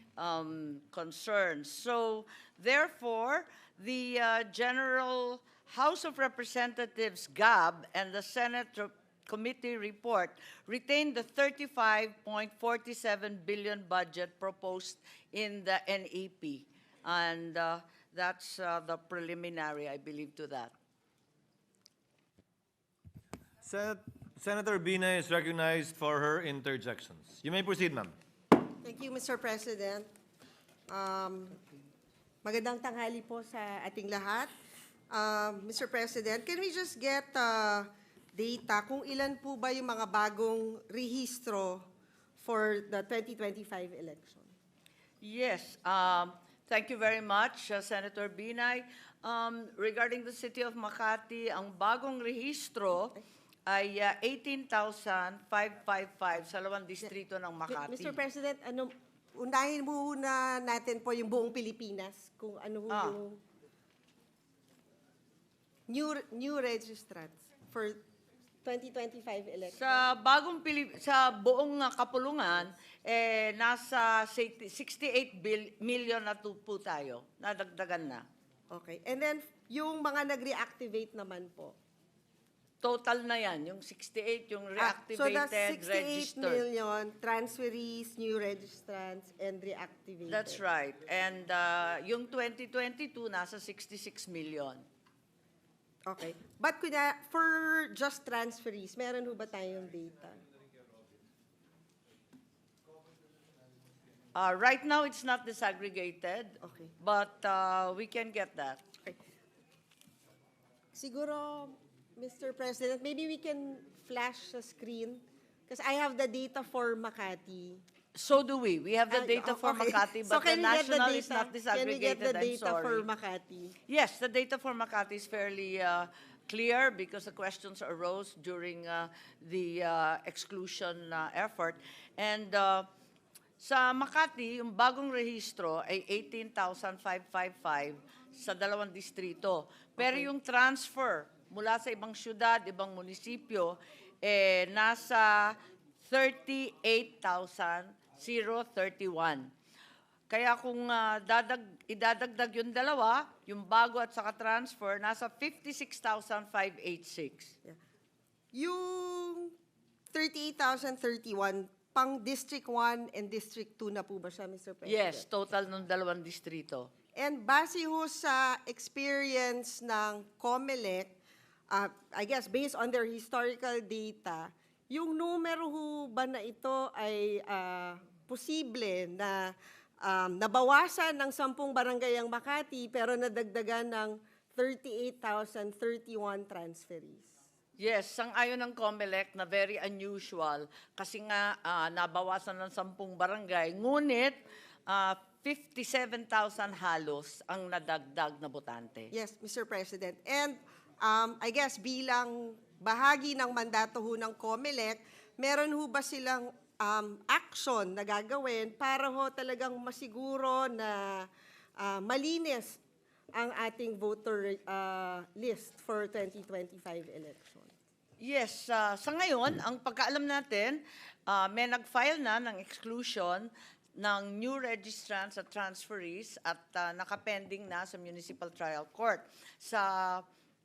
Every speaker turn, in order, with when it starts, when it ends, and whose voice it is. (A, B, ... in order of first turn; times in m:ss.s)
0:00.2-0:20.7 A
0:23.6-0:28.1 B
0:28.8-0:30.1 C
0:30.9-0:31.6 C
0:32.4-0:34.5 C
0:35.1-0:41.8 C
0:42.4-0:44.5 C
0:45.2-0:58.2 A
0:57.7-1:03.4 C
1:02.9-1:03.2 A
1:05.9-1:08.0 C
1:08.6-1:10.0 C
1:09.7-1:18.2 A
1:18.7-1:21.8 C
1:22.8-1:26.6 A
1:24.8-1:30.6 C
1:30.3-1:34.8 A
1:36.0-1:40.4 C
1:44.3-1:48.8 A
1:46.6-1:46.9 C
1:50.9-1:57.8 C
1:58.1-2:03.0 A
1:59.1-2:03.7 C
2:03.9-2:12.9 A
2:13.6-2:29.5 A
2:20.0-2:20.2 C
2:30.3-2:37.6 A
2:38.5-2:39.5 C
2:40.1-2:45.2 C
2:44.8-2:46.9 A
2:47.1-2:51.2 C
2:51.7-3:07.3 C
3:07.8-3:19.1 A
3:19.1-3:32.8 C
3:33.3-3:37.7 C
3:38.2-3:50.2 A